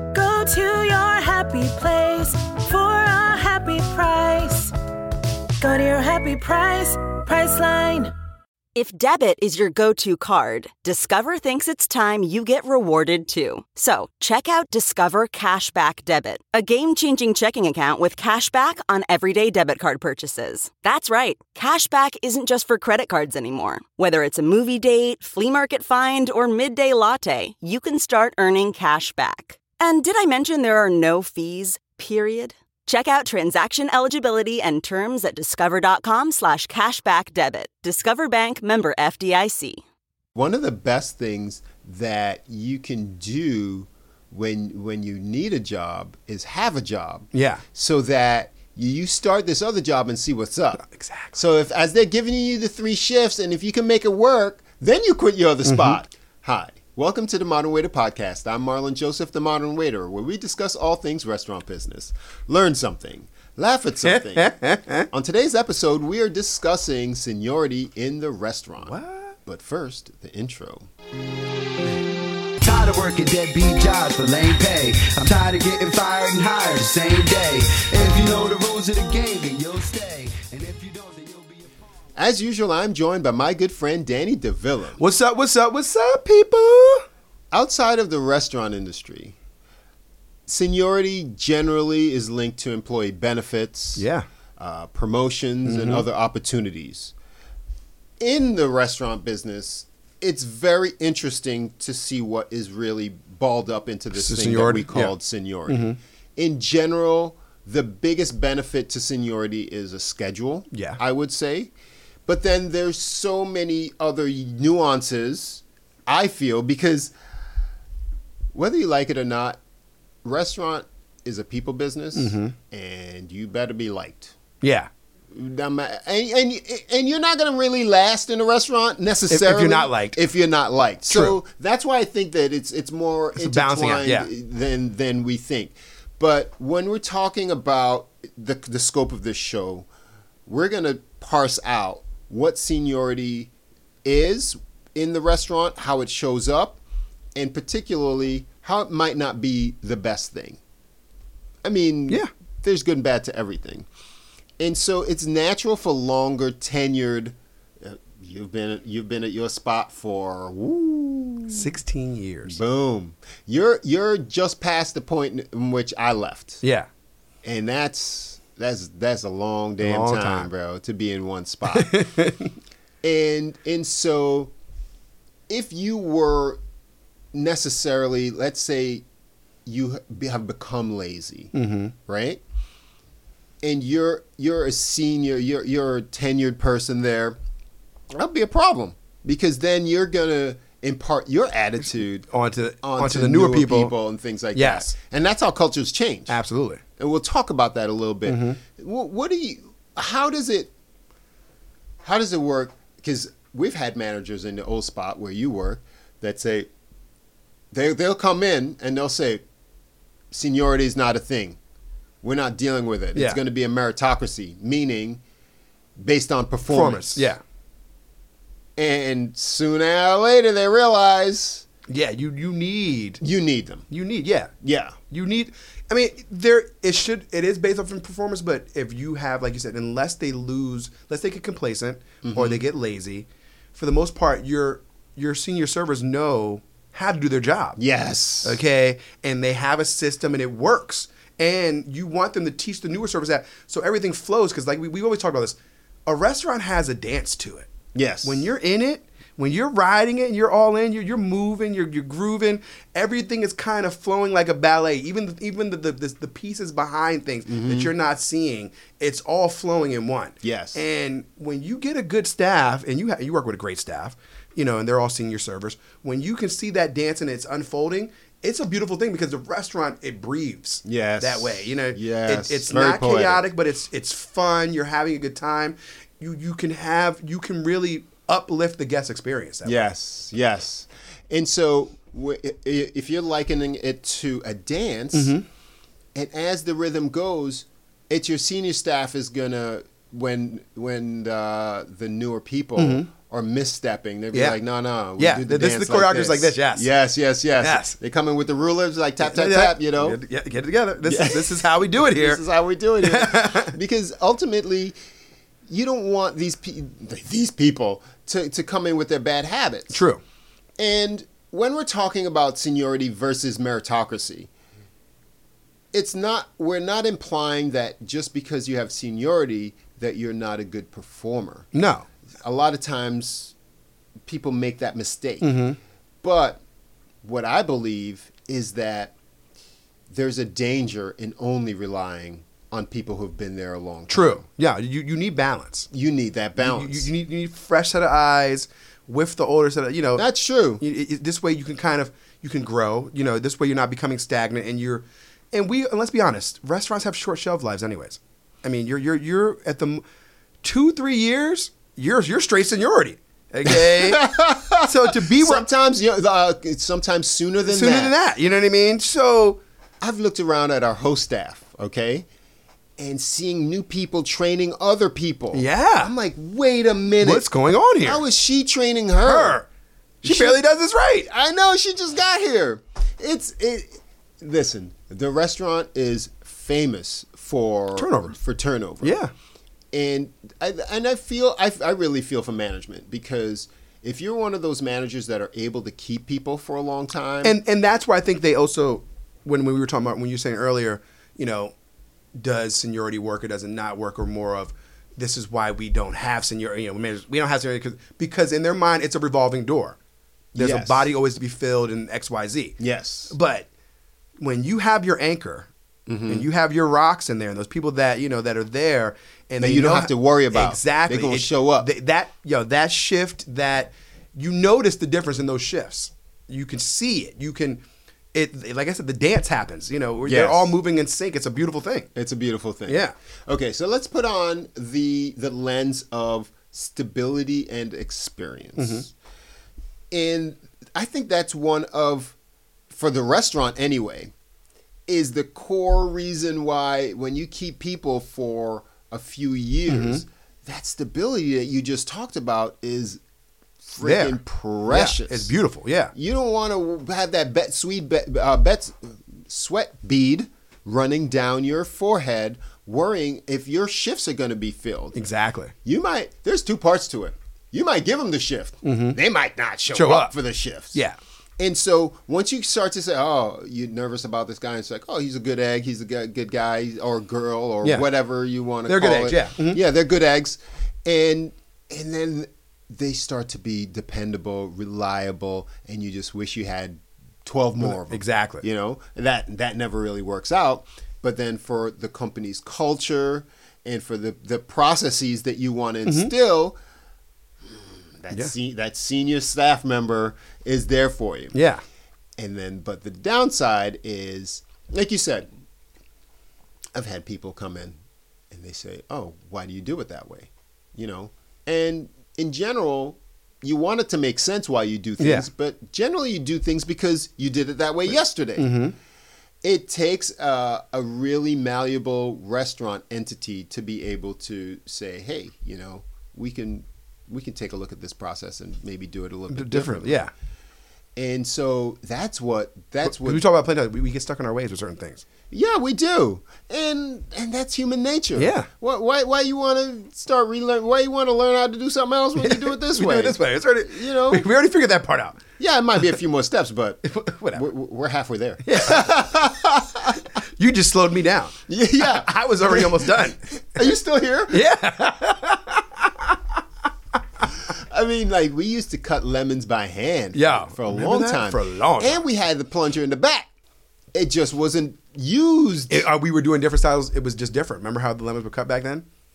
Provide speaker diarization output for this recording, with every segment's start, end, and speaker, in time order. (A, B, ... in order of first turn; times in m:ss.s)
0:00.1-0:04.7 A
0:05.6-0:08.1 A
0:08.7-0:39.8 B
0:40.3-1:04.5 C
0:47.3-0:47.6 D
0:50.8-0:51.3 D
0:55.6-0:56.0 D
1:04.0-1:05.1 D
1:05.1-1:10.9 C
1:08.8-1:09.3 D
1:12.6-1:21.8 E
1:22.1-1:25.0 C
1:25.0-1:27.0 D
1:27.5-1:29.4 C
1:30.5-1:34.0 C
1:34.0-1:34.2 D
1:34.6-1:37.1 C
1:35.6-1:36.0 D
1:38.2-1:51.7 C
1:44.1-1:45.2 D
1:45.7-1:46.0 D
1:50.7-1:51.0 D
1:52.2-1:57.1 C
1:58.5-1:59.6 C
2:00.2-2:04.4 C
2:02.1-2:02.5 D
2:04.6-2:04.9 D
2:05.3-2:19.9 C
2:09.3-2:10.2 D
2:11.1-2:11.4 D
2:13.4-2:14.3 D
2:20.4-2:23.5 C
2:24.0-2:26.8 C
2:27.3-2:30.6 C
2:31.6-2:33.9 C
2:34.6-2:41.7 C
2:41.5-2:42.6 D
2:42.4-2:46.6 C
2:46.6-2:46.9 D
2:47.4-2:51.9 C
2:49.8-2:50.5 D
2:51.7-2:52.5 D
2:53.0-2:54.5 C
2:55.5-2:56.6 C
2:57.3-2:59.0 C
2:59.6-3:01.5 C
3:01.5-3:01.9 D
3:02.0-3:02.4 C
3:03.6-3:07.4 C
3:08.1-3:12.3 C
3:12.3-3:13.9 D
3:12.8-3:16.4 C
3:14.5-3:14.9 D
3:16.3-3:16.8 D
3:17.0-3:20.7 C
3:18.2-3:18.6 D
3:22.0-3:26.7 C
3:27.7-3:29.4 C
3:30.3-3:31.6 C
3:32.2-3:35.2 C
3:33.1-3:33.4 D
3:36.0-3:37.3 C
3:36.7-3:37.4 D
3:38.8-3:41.6 C
3:41.9-3:43.2 D
3:43.2-3:43.8 C
3:43.9-3:44.5 D
3:44.6-3:45.0 C
3:45.1-3:57.8 D
3:52.2-3:52.6 C
3:57.8-3:58.6 C
3:58.4-4:07.7 D
4:07.9-4:08.5 C
4:08.2-4:39.8 D
4:17.5-4:17.9 C
4:20.4-4:20.8 C
4:30.8-4:33.4 C
4:39.6-4:45.4 C
4:45.1-4:45.4 D
4:46.1-5:00.2 C
4:52.8-4:53.1 D
4:54.3-4:54.6 D
4:55.2-4:56.9 D
4:57.6-4:58.0 D
4:59.2-5:02.4 D
5:01.0-5:04.9 C
5:03.0-5:03.7 D
5:05.7-5:10.0 C
5:09.9-5:10.2 D
5:10.8-5:14.5 C
5:15.9-5:21.7 C
5:21.7-5:22.1 D
5:22.4-5:23.5 C
5:24.2-5:25.6 C
5:25.4-5:25.8 D
5:26.2-5:26.6 C
5:27.2-5:29.1 C
5:30.1-5:34.4 C
5:34.1-5:35.9 D
5:35.9-5:37.1 C
5:36.6-5:40.2 D
5:40.2-5:40.8 C
5:40.8-5:50.0 D
5:50.6-5:55.7 D
5:53.6-5:58.1 C
5:57.6-5:59.6 D
6:00.0-6:02.3 C
6:03.0-6:07.4 C
6:05.5-6:06.1 D
6:07.2-6:08.2 D
6:08.0-6:09.6 C
6:09.2-6:09.7 D
6:10.2-6:11.3 D
6:10.2-6:10.6 C
6:11.2-6:19.2 C
6:17.9-6:18.3 D
6:19.0-6:19.3 D
6:19.9-6:27.6 C
6:27.4-6:31.7 D
6:32.3-6:40.0 D
6:40.5-6:42.8 D
6:40.6-6:41.1 C
6:42.8-6:43.3 C
6:43.3-6:43.7 D
6:44.4-6:45.7 D
6:46.1-6:46.5 C
6:46.3-6:57.8 D
6:49.6-6:51.9 C
6:58.3-7:02.1 D
7:00.2-7:00.7 C
7:02.1-7:09.1 C
7:02.9-7:03.1 D
7:08.8-7:09.1 D
7:10.1-7:12.4 C
7:12.9-7:14.3 C
7:15.1-7:23.2 C
7:19.9-7:20.2 D
7:23.8-7:25.5 C
7:24.0-7:26.1 D
7:26.1-7:35.2 C
7:35.1-7:35.7 D
7:35.8-7:41.0 C
7:38.8-7:39.2 D
7:39.9-7:40.3 D
7:40.9-7:41.2 D
7:41.6-8:06.8 C
7:48.9-7:49.8 D
7:57.8-7:58.6 D
8:06.0-8:06.3 D
8:07.7-8:11.5 C
8:11.5-8:11.8 D
8:12.4-8:15.5 C
8:16.9-8:18.0 C
8:18.5-8:28.7 C
8:25.2-8:25.5 D
8:28.6-8:28.9 D
8:29.6-8:40.2 C
8:39.5-8:40.3 D
8:41.2-8:43.4 C
8:43.0-8:45.2 D
8:45.5-8:54.4 C
8:48.4-8:48.7 D
8:52.4-8:55.4 D
8:55.6-9:00.2 C
8:57.0-8:57.7 D
8:58.6-8:59.1 D
9:00.4-9:03.4 D
9:01.7-9:04.6 C
9:04.5-9:06.4 D
9:07.6-9:13.5 C
9:10.3-9:12.2 D
9:14.1-9:16.1 C
9:15.9-9:19.0 D